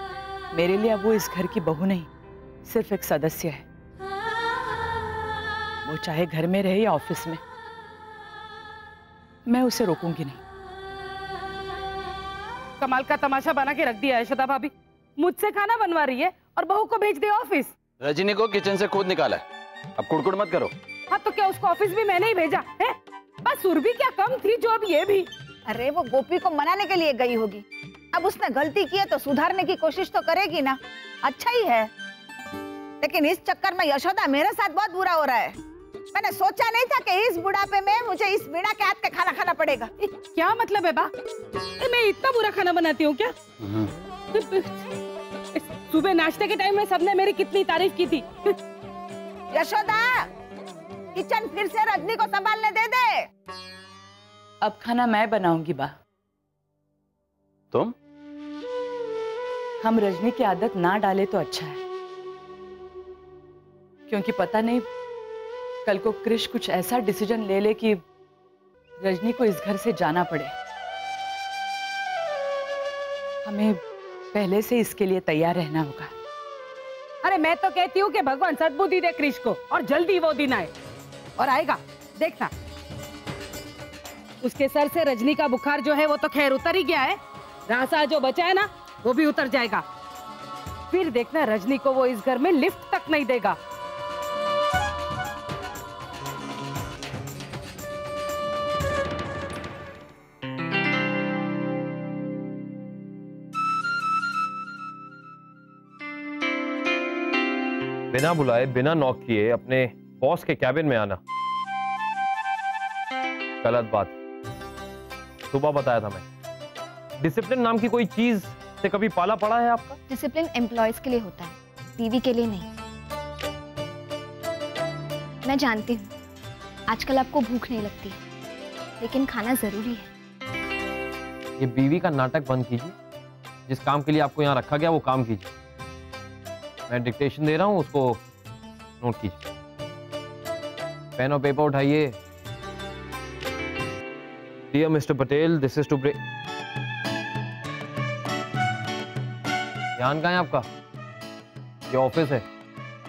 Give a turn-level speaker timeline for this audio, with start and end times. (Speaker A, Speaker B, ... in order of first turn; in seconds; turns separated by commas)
Speaker A: 0.5-2.1, Speaker A: 2.6-3.6, Speaker A: 5.8-7.4, Speaker A: 9.5-10.4, Speaker B: 12.8-17.8, Speaker C: 18.0-19.4, Speaker C: 20.0-20.7, Speaker B: 21.1-25.3, Speaker D: 25.7-31.9, Speaker D: 33.0-35.6, Speaker D: 36.1-39.9, Speaker B: 40.0-41.1, Speaker B: 41.8-43.3, Speaker B: 44.3-44.8, Speaker B: 45.5-48.6, Speaker D: 49.5-50.3, Speaker D: 51.1-53.3, Speaker A: 54.6-55.9, Speaker A: 59.8-61.8, Speaker A: 64.1-64.9, Speaker A: 65.8-68.0, Speaker A: 69.0-70.5, Speaker A: 73.4-76.1, Speaker B: 77.2-80.7, Speaker B: 81.4-82.5, Speaker B: 84.4-89.8, Speaker B: 90.9-93.6, Speaker E: 108.1-111.2, Speaker E: 113.6-114.2, Speaker E: 115.5-116.2, Speaker E: 117.2-120.0, Speaker F: 120.1-122.7, Speaker F: 125.5-126.1, Speaker F: 126.9-128.2, Speaker F: 129.0-130.1, Speaker E: 131.6-132.9, Speaker E: 133.7-135.5, Speaker E: 136.9-138.2, Speaker E: 139.0-139.4, Speaker E: 141.2-142.2, Speaker E: 144.7-146.2, Speaker E: 150.0-150.7, Speaker E: 151.9-152.4